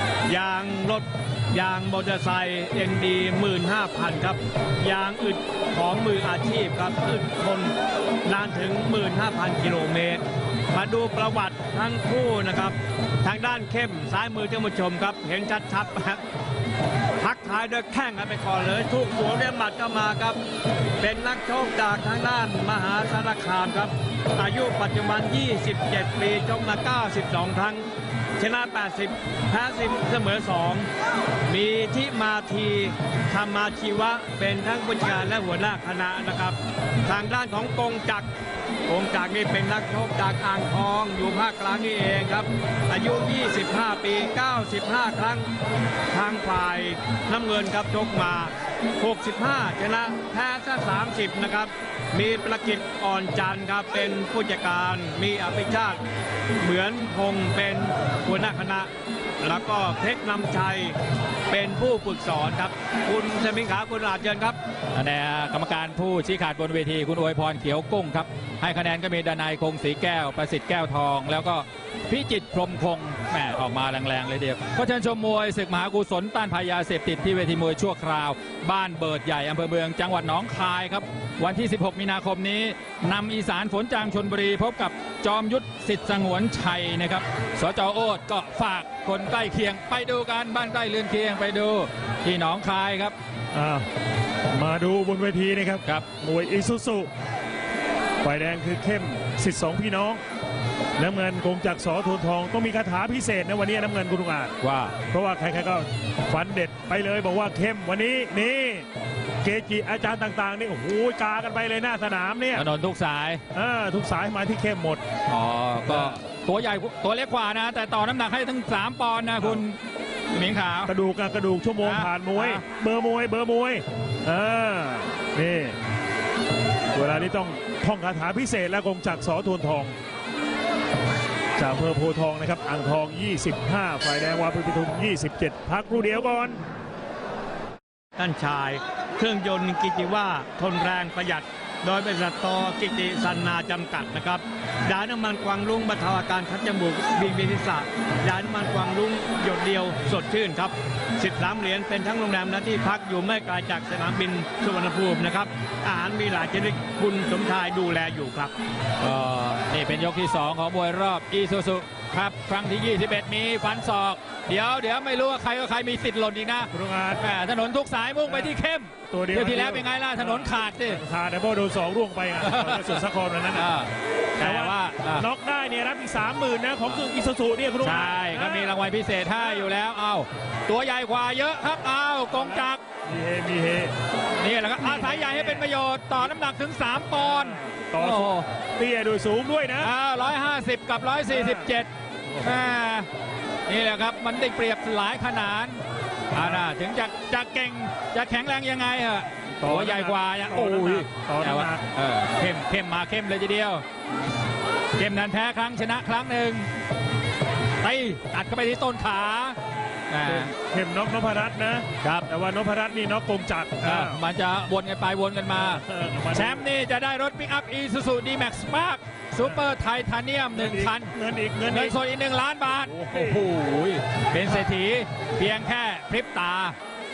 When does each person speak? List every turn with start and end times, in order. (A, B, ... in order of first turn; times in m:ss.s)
0:00.3-0:07.7 A
0:08.2-0:16.2 A
0:17.2-0:20.4 A
0:21.0-0:27.9 A
0:28.4-0:30.9 A
0:31.5-0:38.3 A
0:38.9-0:45.5 A
0:46.1-0:56.0 A
0:56.6-0:58.9 A
0:59.4-1:01.0 A
1:01.5-1:04.6 A
1:04.9-1:33.2 B
1:33.5-1:33.9 C
1:34.5-1:37.1 C
1:38.2-1:40.2 C
1:41.0-1:44.5 C
1:44.6-1:45.0 B
1:45.1-1:48.9 C
1:49.4-1:52.7 C
1:52.5-1:53.4 B
1:53.5-1:55.0 C
1:55.3-1:59.8 B
1:55.9-1:56.2 C
2:00.3-2:00.9 B
2:00.9-2:05.8 C
2:01.8-2:02.6 B
2:06.9-2:10.0 C
2:11.6-2:16.6 C
2:18.2-2:38.5 A
2:39.0-2:51.0 B
2:46.7-2:47.2 C
2:48.3-2:48.6 C
2:49.1-2:53.7 C
2:52.4-2:55.3 B
2:54.4-2:58.8 C
2:57.8-3:02.8 B
2:59.4-2:59.7 C
3:02.3-3:03.9 C
3:04.4-3:08.5 B
3:04.8-3:05.7 C
3:07.1-3:09.9 C
3:09.8-3:11.9 B
3:11.3-3:11.7 C
3:12.2-3:12.6 C
3:12.4-3:13.1 B
3:13.7-3:15.8 B
3:16.3-3:23.8 B
3:16.3-3:16.6 C
3:19.5-3:21.9 C
3:25.0-3:26.7 B
3:27.8-3:29.6 B
3:30.1-3:30.5 B
3:30.2-3:34.2 C
3:32.0-3:32.3 B
3:33.8-3:41.1 B
3:35.6-3:36.7 C
3:39.4-3:39.7 C
3:40.5-3:42.0 C
3:41.7-3:46.8 B
3:42.7-3:43.5 C